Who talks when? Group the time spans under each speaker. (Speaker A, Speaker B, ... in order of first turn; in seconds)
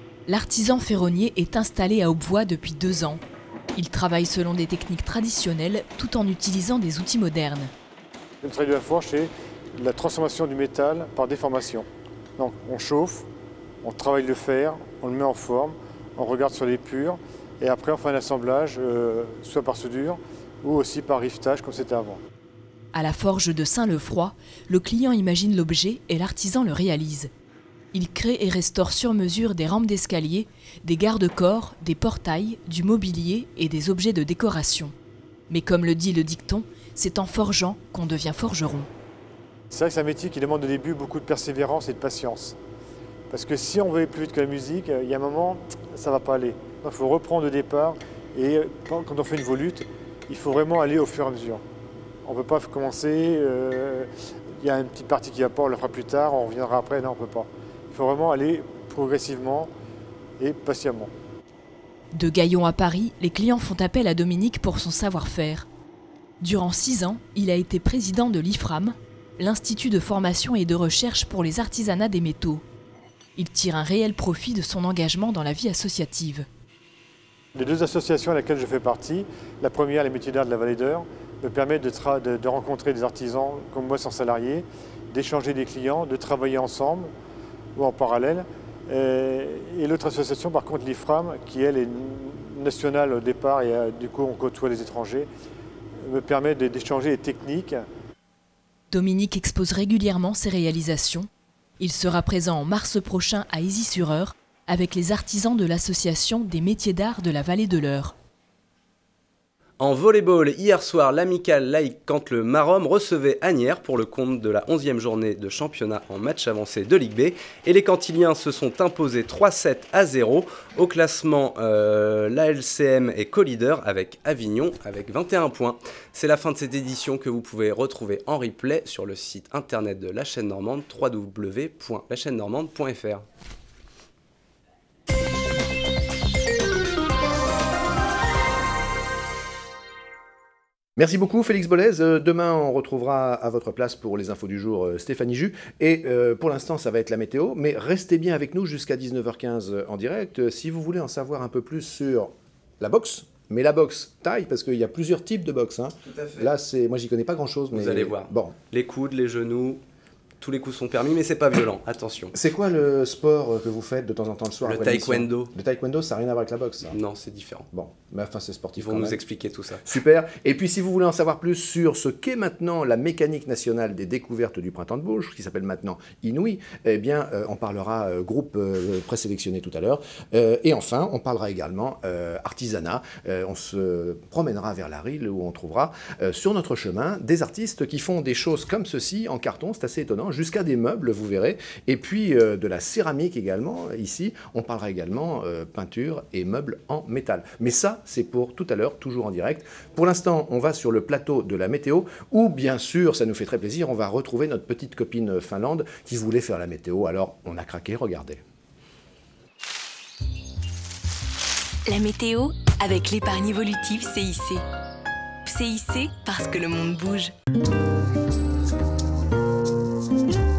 Speaker A: 0.3-3.2, 3.8-7.7, 22.9-27.3, 27.9-34.9, 35.5-38.9, 62.1-65.7, 66.4-72.6, 73.4-76.5, 98.9-101.3, 101.8-108.2
Speaker B: 8.4-11.9, 12.4-13.3, 13.8-22.2, 39.7-42.6, 43.3-51.6, 52.2-54.1, 54.6-59.7, 60.4-61.1, 77.5-87.1, 87.8-95.3, 96.0-97.8
Speaker C: 109.8-133.2, 156.1-156.5, 157.7-159.8, 160.4-162.3, 164.6-165.5, 166.9-167.7, 168.8-169.8
Speaker D: 141.0-158.6, 162.3-167.0, 167.7-169.2, 169.8-208.4
Speaker E: 211.9-214.6, 215.4-217.3